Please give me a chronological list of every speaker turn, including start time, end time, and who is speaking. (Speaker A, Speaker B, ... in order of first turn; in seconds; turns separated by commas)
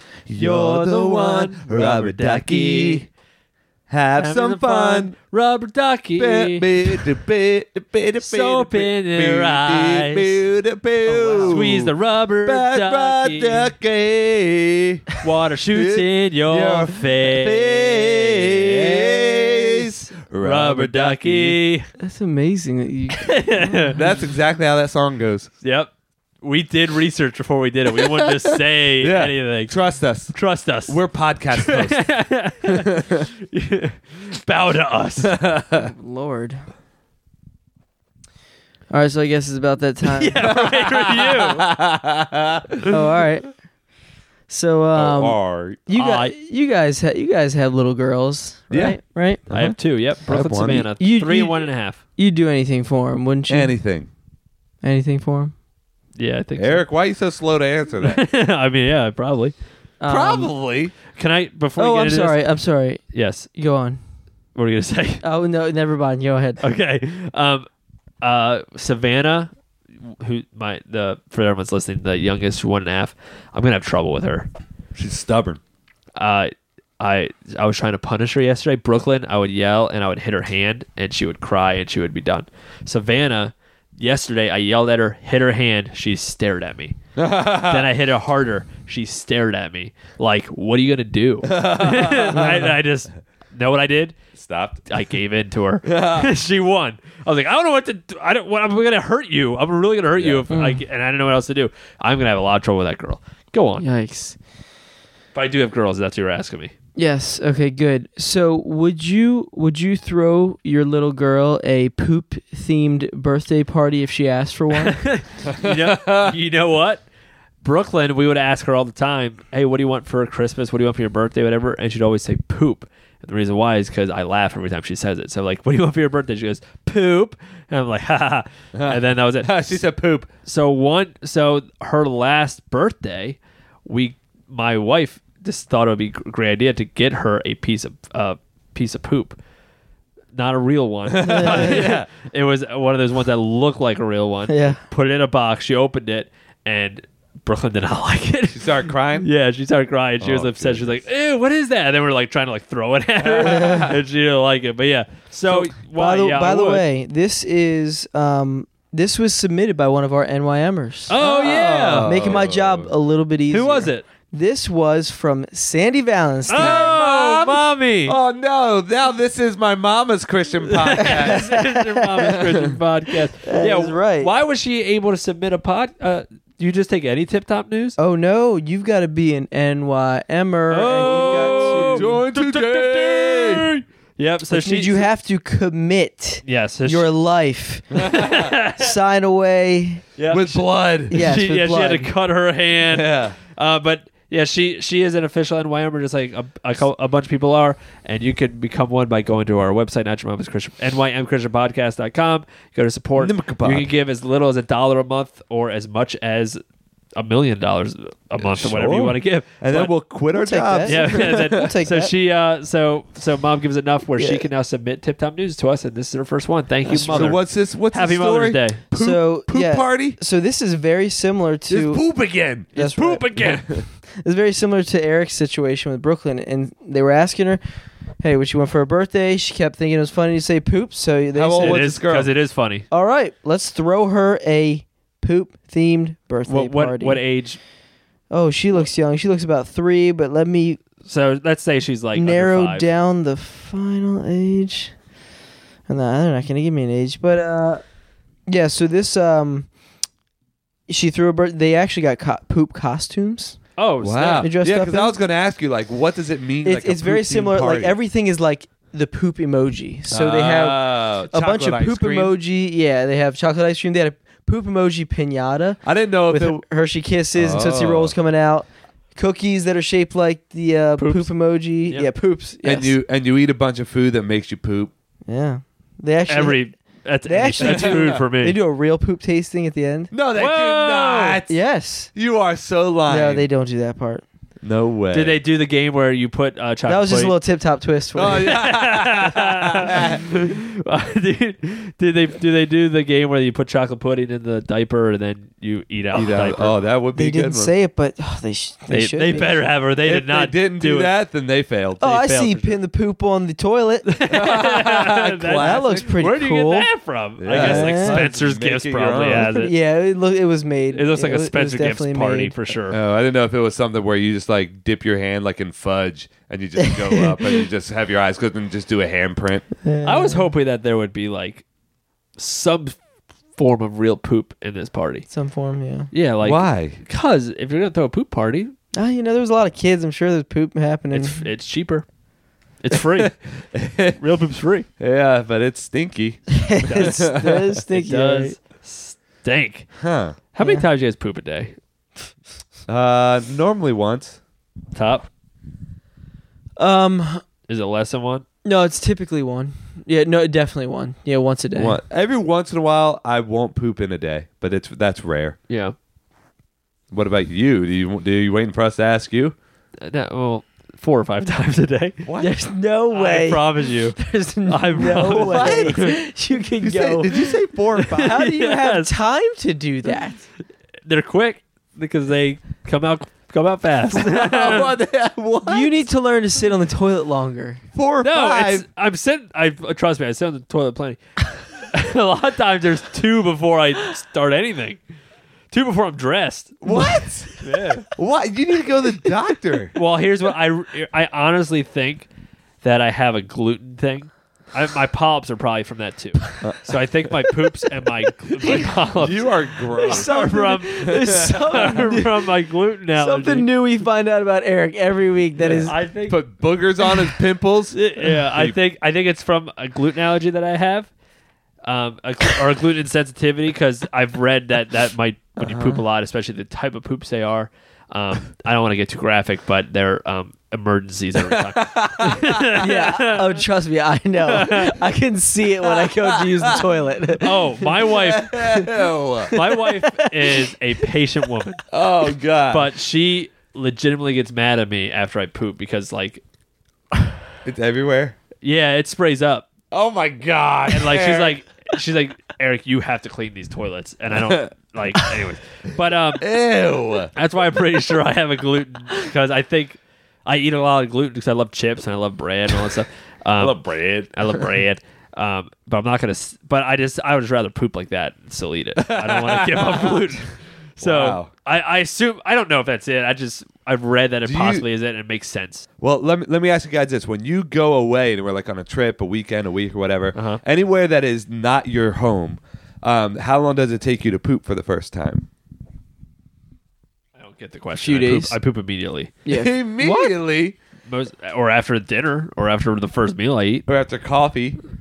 Speaker A: 0.3-3.1, Speaker B: 0.3-3.1, Speaker A: 3.9-5.2, Speaker B: 4.2-7.1, Speaker A: 6.2-15.1, Speaker B: 8.2-10.4, Speaker B: 11.1-13.8, Speaker B: 15.2-19.2, Speaker A: 15.7-21.6, Speaker C: 19.0-20.1, Speaker B: 20.4-21.9, Speaker C: 22.0-23.9, Speaker B: 23.1-24.0, Speaker A: 23.9-25.5, Speaker B: 25.6-25.9, Speaker B: 26.4-29.8, Speaker A: 29.0-32.1, Speaker B: 30.3-31.0, Speaker B: 31.5-35.3, Speaker A: 35.2-35.9, Speaker C: 35.8-36.6, Speaker C: 38.9-40.5, Speaker B: 40.0-41.7, Speaker A: 40.4-42.6, Speaker C: 42.9-43.5, Speaker C: 44.5-49.5, Speaker A: 44.9-45.9, Speaker B: 45.9-46.3, Speaker A: 48.7-50.9, Speaker B: 49.5-52.0, Speaker C: 51.0-53.8, Speaker A: 53.5-54.1, Speaker C: 54.8-55.5, Speaker B: 56.2-56.8, Speaker A: 56.6-58.2, Speaker B: 58.0-59.5, Speaker C: 60.0-60.5, Speaker A: 60.1-61.0, Speaker B: 61.1-62.4, Speaker C: 61.8-63.0, Speaker B: 63.1-63.5, Speaker C: 63.5-64.0, Speaker B: 64.5-65.2, Speaker C: 65.2-66.6, Speaker B: 66.6-67.7, Speaker B: 68.2-69.5, Speaker B: 70.0-74.5, Speaker A: 75.0-75.6, Speaker B: 76.2-87.0, Speaker A: 87.2-87.9, Speaker B: 87.6-94.2, Speaker A: 91.4-92.7, Speaker A: 94.3-94.9, Speaker B: 94.9-103.9, Speaker A: 95.8-96.3, Speaker A: 100.2-100.5, Speaker C: 100.5-100.8, Speaker C: 103.8-104.4, Speaker B: 105.3-106.7, Speaker C: 107.0-115.1, Speaker B: 114.9-117.0, Speaker A: 115.5-116.3, Speaker B: 117.6-129.8, Speaker A: 128.8-130.3, Speaker B: 130.5-139.4, Speaker B: 140.3-156.8, Speaker A: 141.1-142.1, Speaker C: 141.2-141.8, Speaker C: 144.5-144.8, Speaker A: 148.5-149.3, Speaker A: 150.2-151.0, Speaker A: 153.3-153.9, Speaker C: 153.3-153.9, Speaker C: 155.5-161.2, Speaker B: 161.1-162.4, Speaker A: 161.2-162.9, Speaker C: 161.9-166.8, Speaker B: 163.5-164.0, Speaker B: 166.5-168.2, Speaker A: 166.5-171.5, Speaker B: 170.6-178.0, Speaker C: 170.9-172.5, Speaker A: 172.2-172.8, Speaker C: 173.4-174.3, Speaker C: 178.0-182.2, Speaker B: 180.7-185.1, Speaker A: 181.0-183.7, Speaker C: 184.5-188.1, Speaker B: 186.4-187.1, Speaker A: 187.9-188.5, Speaker B: 188.1-188.9, Speaker C: 188.7-192.1, Speaker B: 190.2-190.5, Speaker A: 190.3-191.3, Speaker B: 191.1-206.6, Speaker A: 192.9-193.4, Speaker A: 203.2-203.9, Speaker B: 207.2-209.9, Speaker A: 208.4-211.7, Speaker C: 210.3-212.2, Speaker B: 210.8-218.8, Speaker C: 214.2-214.5, Speaker C: 216.8-217.3, Speaker A: 217.1-220.2, Speaker C: 218.9-222.1, Speaker A: 221.7-222.7, Speaker B: 222.7-223.8, Speaker C: 222.8-223.3, Speaker A: 223.4-223.8, Speaker C: 224.1-227.6, Speaker C: 228.2-231.9, Speaker A: 231.3-232.3, Speaker B: 231.6-232.9, Speaker C: 232.9-237.2, Speaker B: 236.5-237.6, Speaker C: 238.3-240.8, Speaker B: 241.1-242.9, Speaker C: 242.1-244.9, Speaker C: 245.9-247.8, Speaker C: 248.5-249.7, Speaker C: 250.9-253.6, Speaker B: 253.8-254.5, Speaker A: 254.0-258.0, Speaker C: 254.4-255.2, Speaker C: 256.6-273.0, Speaker A: 260.1-262.4, Speaker A: 265.8-266.6, Speaker A: 267.3-268.1, Speaker B: 271.0-271.3, Speaker A: 272.6-274.9, Speaker C: 275.3-276.7, Speaker B: 276.3-278.6, Speaker C: 277.2-280.1, Speaker A: 277.6-278.3, Speaker A: 280.1-281.5, Speaker B: 280.4-281.4, Speaker C: 281.5-282.1, Speaker A: 282.1-283.5, Speaker C: 283.1-284.3, Speaker A: 284.6-285.4, Speaker B: 285.1-287.4, Speaker C: 286.9-288.6, Speaker A: 288.1-290.2, Speaker B: 288.2-296.8, Speaker A: 296.1-297.7, Speaker C: 297.1-299.7, Speaker B: 298.9-301.1, Speaker A: 300.0-302.2, Speaker C: 302.0-304.3, Speaker B: 302.0-302.8, Speaker B: 304.1-309.7, Speaker A: 304.3-306.1, Speaker C: 305.6-306.9, Speaker A: 307.4-309.5, Speaker C: 307.5-308.2, Speaker C: 309.3-312.7, Speaker B: 310.9-313.0, Speaker A: 312.9-319.7, Speaker C: 316.8-317.7, Speaker C: 319.8-320.5, Speaker B: 320.0-321.6, Speaker B: 322.4-323.0, Speaker B: 323.6-325.3, Speaker C: 325.3-326.1, Speaker B: 326.1-328.7, Speaker A: 326.4-327.0, Speaker C: 328.9-331.4, Speaker B: 331.1-332.1, Speaker B: 332.8-333.4, Speaker A: 333.1-334.2, Speaker B: 334.2-334.9, Speaker A: 335.0-337.8, Speaker C: 336.5-338.6, Speaker B: 336.9-337.2, Speaker B: 337.9-339.9, Speaker A: 340.0-340.4, Speaker B: 340.5-341.7, Speaker C: 340.6-340.9, Speaker A: 342.9-344.4, Speaker B: 344.9-345.3, Speaker C: 346.8-347.4, Speaker B: 347.7-348.4, Speaker C: 348.6-352.0, Speaker A: 351.7-355.6, Speaker B: 355.7-355.9, Speaker A: 357.1-359.6, Speaker B: 360.0-362.2, Speaker A: 362.2-362.6, Speaker C: 362.4-367.5, Speaker B: 363.1-366.2, Speaker A: 365.1-366.0, Speaker A: 366.8-368.4, Speaker B: 367.9-369.1, Speaker C: 368.2-370.4, Speaker B: 371.1-375.0, Speaker A: 374.1-376.1, Speaker C: 375.7-377.8, Speaker A: 377.9-378.9, Speaker B: 378.2-381.2, Speaker B: 381.8-385.0, Speaker B: 385.7-387.0, Speaker A: 386.8-389.9, Speaker B: 387.6-388.1, Speaker B: 389.9-392.3, Speaker B: 392.8-403.7, Speaker A: 398.6-400.3, Speaker C: 400.0-402.4, Speaker A: 401.1-402.2, Speaker C: 403.1-406.0, Speaker B: 405.6-406.4, Speaker A: 406.3-408.8, Speaker C: 407.0-407.3, Speaker B: 407.9-411.1, Speaker B: 411.8-423.6, Speaker A: 415.6-416.0, Speaker A: 421.4-422.8, Speaker C: 422.8-427.9, Speaker B: 424.4-425.0, Speaker A: 426.0-426.8, Speaker B: 427.4-428.9, Speaker A: 428.0-429.6, Speaker C: 429.5-430.7, Speaker B: 429.5-431.9, Speaker A: 431.9-432.9, Speaker B: 432.7-436.4, Speaker A: 437.6-438.4, Speaker B: 438.6-439.7, Speaker A: 439.9-441.6, Speaker B: 440.9-446.4, Speaker A: 444.3-444.7, Speaker A: 446.4-447.3, Speaker B: 447.4-465.9, Speaker A: 453.6-454.8, Speaker A: 459.0-460.4, Speaker A: 461.0-461.5, Speaker A: 464.4-464.9, Speaker A: 466.0-475.5, Speaker B: 470.3-470.6, Speaker B: 477.4-479.4, Speaker C: 478.0-478.6, Speaker C: 479.4-479.9, Speaker A: 479.5-480.8, Speaker B: 480.0-480.3, Speaker B: 481.1-483.9, Speaker A: 483.9-484.8